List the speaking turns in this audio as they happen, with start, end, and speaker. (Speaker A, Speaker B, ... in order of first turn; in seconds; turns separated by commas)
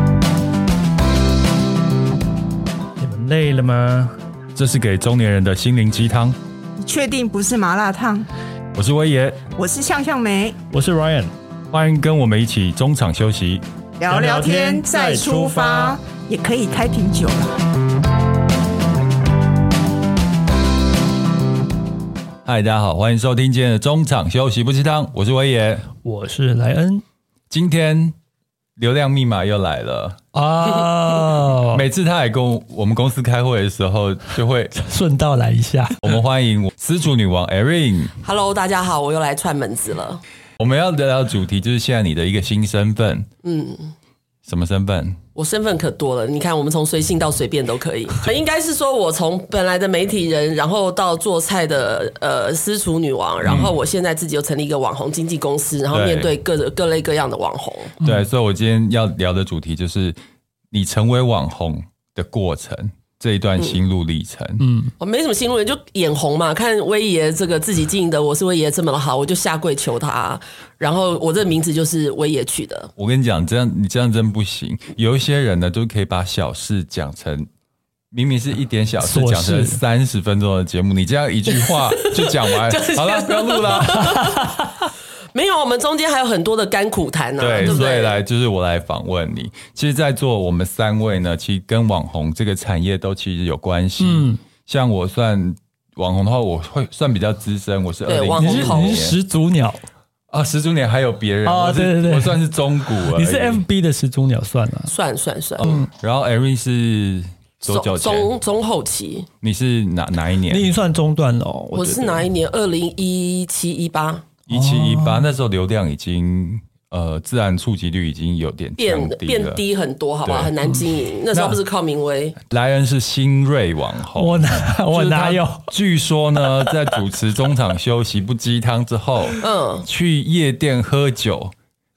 Speaker A: 3.0-4.2, Speaker B: 4.5-6.4, Speaker C: 6.8-8.3, Speaker B: 8.7-9.4, Speaker C: 9.6-10.6, Speaker A: 10.7-11.3, Speaker B: 11.7-13.6, Speaker C: 14.0-17.6, Speaker A: 14.1-16.0, Speaker B: 22.4-25.9, Speaker A: 26.0-27.0, Speaker B: 27.5-28.2, Speaker B: 28.8-30.2, Speaker A: 30.3-31.9, Speaker B: 31.7-34.8, Speaker A: 34.8-36.1, Speaker B: 36.0-38.1, Speaker D: 38.2-40.2, Speaker B: 40.6-43.3, Speaker D: 43.4-43.9, Speaker B: 44.5-45.2, Speaker D: 45.4-58.0, Speaker B: 53.4-53.7, Speaker B: 55.9-56.3, Speaker B: 58.0-60.2, Speaker B: 60.7-64.7, Speaker A: 64.6-64.9, Speaker D: 65.0-72.9, Speaker B: 73.0-77.5, Speaker B: 78.1-84.2, Speaker A: 79.0-79.8, Speaker D: 81.8-84.6, Speaker D: 85.3-88.2, Speaker B: 87.4-99.2, Speaker A: 94.0-94.4, Speaker D: 98.1-99.0, Speaker A: 98.4-99.8, Speaker B: 100.3-103.7, Speaker A: 101.5-104.9, Speaker D: 104.9-105.8, Speaker B: 105.6-108.3, Speaker D: 107.7-109.3, Speaker B: 109.4-110.7, Speaker A: 110.5-112.3, Speaker D: 111.8-114.3, Speaker B: 114.5-119.6, Speaker A: 114.5-115.3, Speaker D: 118.8-122.4, Speaker B: 120.2-120.5, Speaker B: 121.3-121.6, Speaker B: 122.4-131.5, Speaker A: 124.2-125.7, Speaker D: 129.4-129.9